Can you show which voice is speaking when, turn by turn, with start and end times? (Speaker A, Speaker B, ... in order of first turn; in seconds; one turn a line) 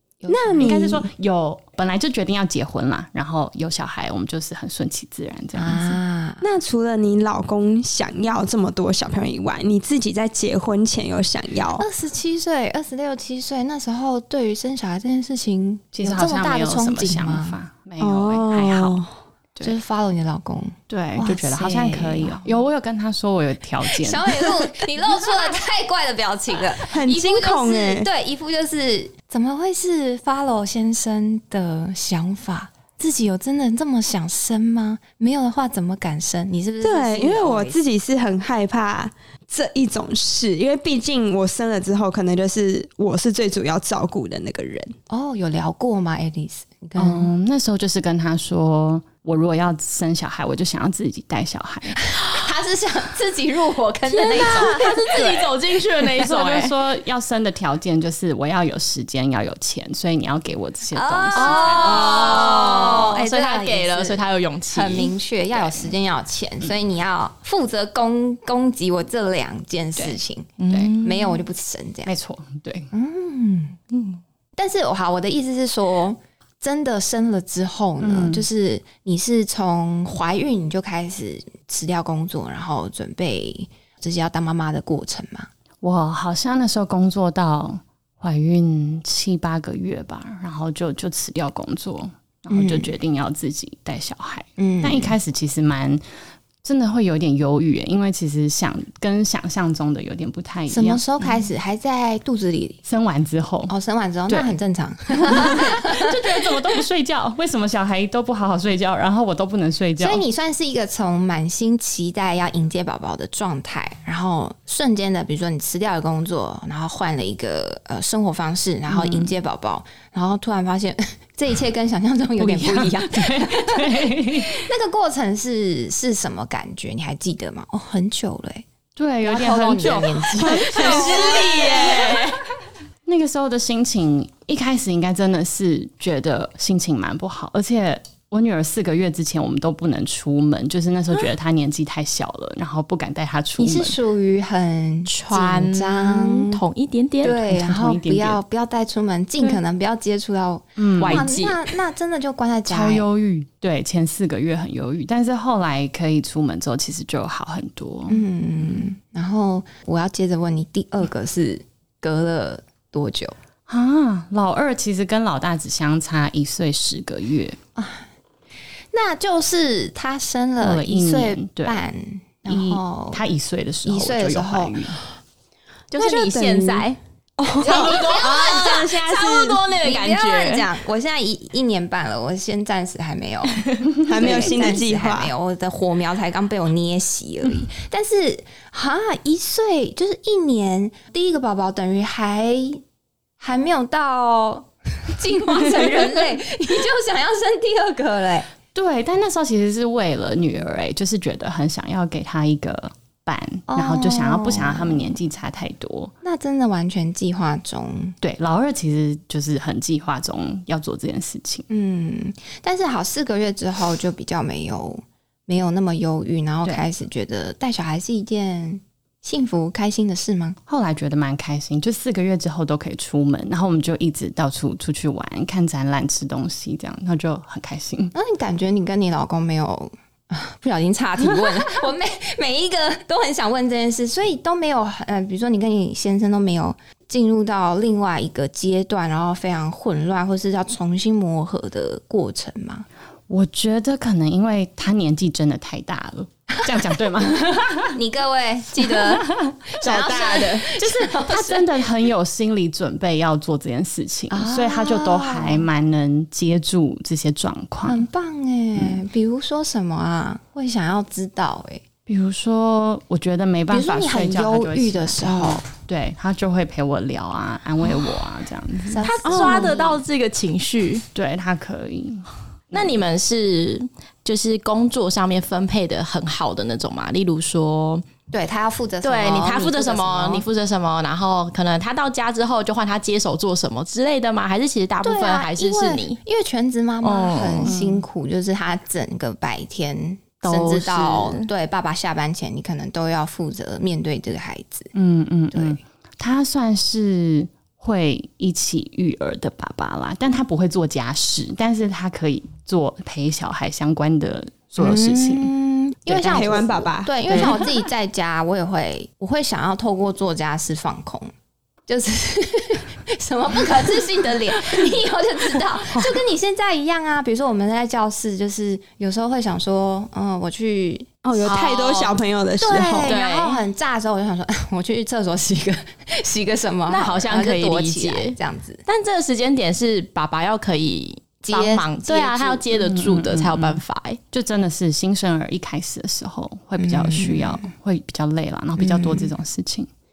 Speaker A: 0.2-0.8
Speaker B: 0.3-1.1
Speaker C: 0.6-6.0
Speaker A: 5.5-6.4
Speaker B: 6.4-11.9
Speaker A: 11.8-17.6
Speaker C: 15.9-19.0
Speaker B: 18.0-19.1
Speaker A: 19.6-22.6
Speaker C: 20.9-24.6
Speaker A: 23.9-37.8
Speaker B: 26.9-28.1
Speaker B: 36.8-45.0
Speaker A: 45.1-47.3
Speaker C: 47.0-52.1
Speaker A: 52.0-55.5
Speaker D: 54.1-56.8
Speaker C: 56.1-62.3
Speaker A: 60.9-72.1
Speaker D: 61.3-65.1
Speaker D: 70.6-71.4
Speaker C: 72.1-72.9
Speaker A: 72.9-73.8
Speaker D: 73.9-74.2
Speaker A: 74.6-85.5
Speaker C: 78.0-78.5
Speaker C: 85.8-96.0
Speaker A: 92.5-92.9
Speaker A: 94.6-95.2
Speaker C: 96.6-101.4
Speaker A: 100.7-102.8
Speaker C: 102.8-103.7
Speaker A: 103.7-106.2
Speaker C: 105.1-110.2
Speaker A: 110.0-128.7
Speaker C: 118.9-119.3
Speaker C: 122.4-124.6
Speaker C: 129.0-131.0
Speaker A: 129.2-132.1
Speaker D: 130.5-132.4
Speaker B: 130.6-132.2
Speaker C: 133.1-144.0
Speaker A: 143.6-146.6
Speaker D: 145.1-147.4
Speaker A: 147.2-153.1
Speaker C: 147.2-148.4
Speaker C: 150.8-151.3
Speaker D: 151.0-151.7
Speaker C: 152.7-158.9
Speaker A: 158.1-163.3
Speaker C: 163.7-167.6
Speaker A: 167.8-168.1
Speaker A: 168.9-173.2
Speaker C: 170.6-171.8
Speaker C: 172.5-175.0
Speaker A: 173.8-175.0
Speaker D: 175.9-176.9
Speaker B: 176.0-179.6
Speaker D: 177.6-180.7
Speaker A: 177.6-179.0
Speaker A: 179.8-192.8
Speaker D: 183.5-183.8
Speaker B: 184.1-185.3
Speaker A: 193.4-198.5
Speaker C: 198.7-206.1
Speaker A: 203.7-205.1
Speaker A: 206.2-208.2
Speaker C: 208.2-211.7
Speaker A: 211.7-220.6
Speaker C: 220.7-228.1
Speaker A: 228.1-242.9
Speaker C: 243.3-248.0
Speaker A: 247.9-251.7
Speaker C: 248.8-249.9
Speaker B: 249.8-250.6
Speaker C: 250.8-258.0
Speaker A: 254.3-255.7
Speaker A: 257.9-261.8
Speaker C: 258.8-259.0
Speaker C: 262.1-269.1
Speaker A: 263.7-265.6
Speaker A: 268.9-270.0
Speaker D: 269.0-271.1
Speaker C: 271.1-273.0
Speaker D: 272.7-278.1
Speaker A: 278.3-280.5
Speaker D: 279.0-286.2
Speaker A: 285.0-294.9
Speaker D: 287.0-287.7
Speaker C: 287.6-288.0
Speaker D: 290.4-291.5
Speaker C: 294.9-305.5
Speaker A: 295.5-295.8
Speaker A: 304.8-311.3
Speaker C: 306.1-306.6
Speaker B: 306.2-307.5
Speaker C: 307.3-307.7
Speaker A: 311.9-321.6
Speaker B: 321.2-323.1
Speaker D: 321.4-322.2
Speaker A: 322.6-328.8
Speaker D: 323.1-323.7
Speaker D: 326.9-334.2
Speaker A: 331.4-332.7
Speaker C: 332.7-333.8
Speaker C: 334.3-339.9
Speaker A: 336.8-337.7
Speaker A: 338.8-339.3